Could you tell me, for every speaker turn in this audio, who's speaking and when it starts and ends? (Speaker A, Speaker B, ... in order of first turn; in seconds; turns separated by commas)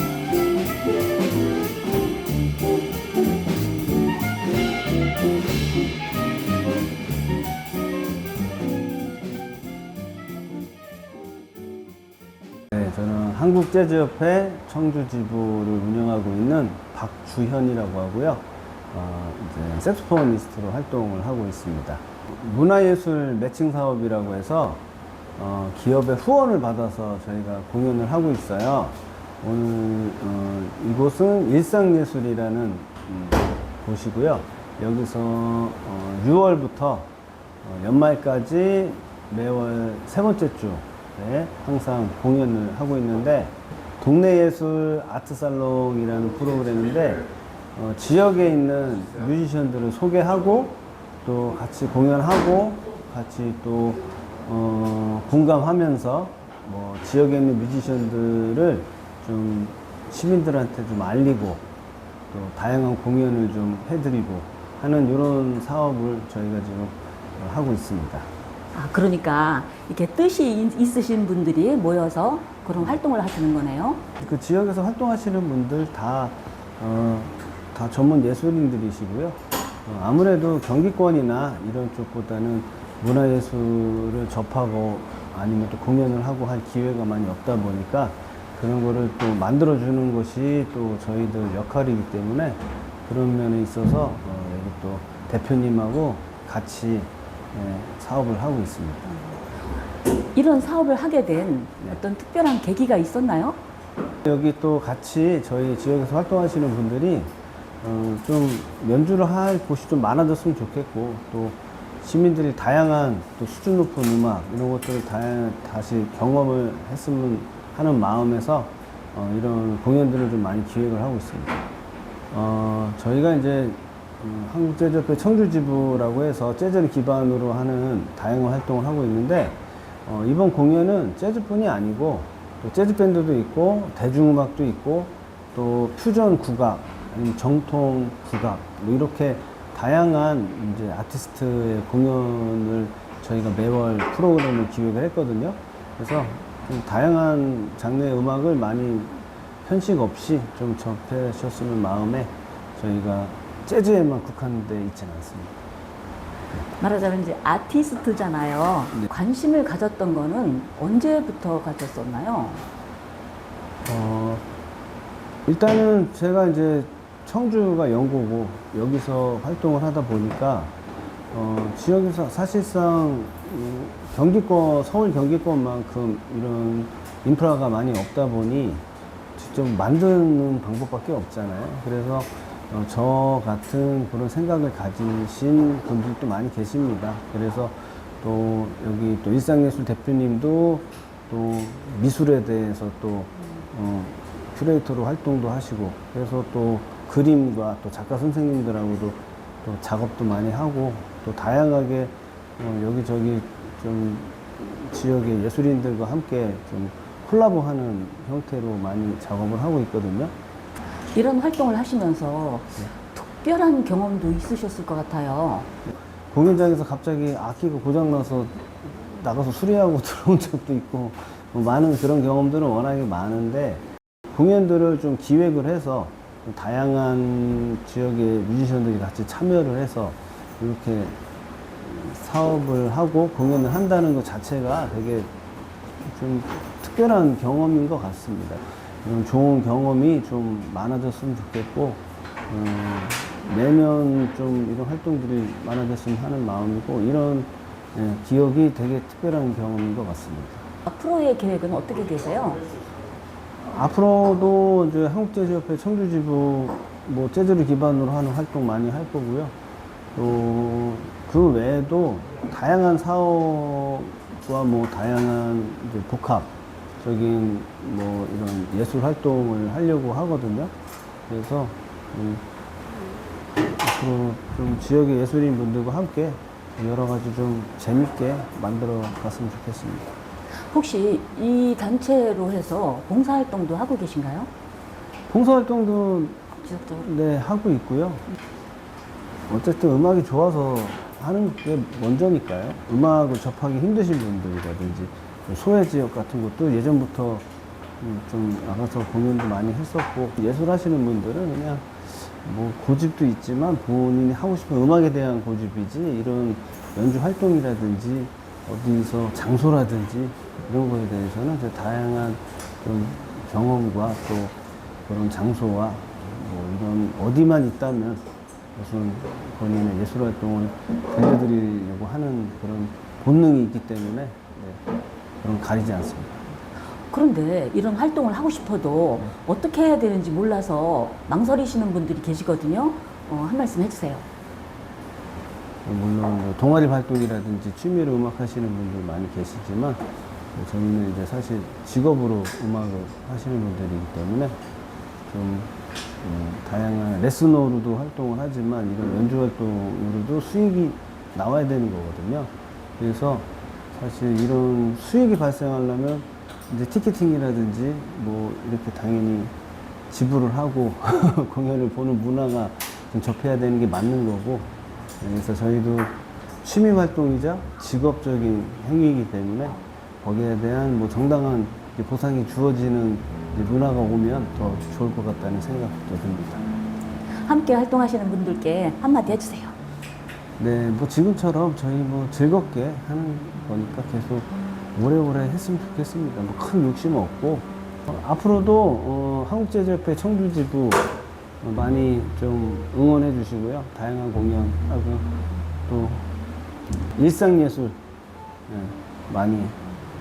Speaker A: 12.7-24.8, Speaker A: 25.4-37.1, Speaker A: 37.6-61.7, Speaker A: 62.3-68.3, Speaker B: 68.7-74.1, Speaker A: 74.2-99.2, Speaker B: 100.3-103.6, Speaker A: 104.2-121.7, Speaker A: 122.3-155.6, Speaker B: 156.8-162.7, Speaker A: 163.8-164.5, Speaker A: 165.4-170.7, Speaker A: 171.3-178.8, Speaker A: 179.3-210.3, Speaker B: 211.1-215.7, Speaker A: 215.9-231.2, Speaker A: 231.8-235.3, Speaker A: 236.0-250.7, Speaker B: 250.8-252.9, Speaker A: 253.6-259.5, Speaker A: 260.1-270.7, Speaker A: 271.3-280.1, Speaker B: 280.6-284.5, Speaker A: 285.3-288.2, Speaker B: 286.6-286.9, Speaker A: 289.5-297.4, Speaker A: 298.0-318.2, Speaker A: 318.7-324.8, Speaker A: 325.4-326.5, Speaker B: 327.1-334.3, Speaker A: 335.8-344.6, Speaker A: 345.3-359.5, Speaker A: 360.1-376.6, Speaker B: 377.4-379.7, Speaker A: 380.6-391.1, Speaker A: 391.6-395.3, Speaker A: 395.9-396.3, Speaker A: 397.1-398.0, Speaker A: 398.7-399.8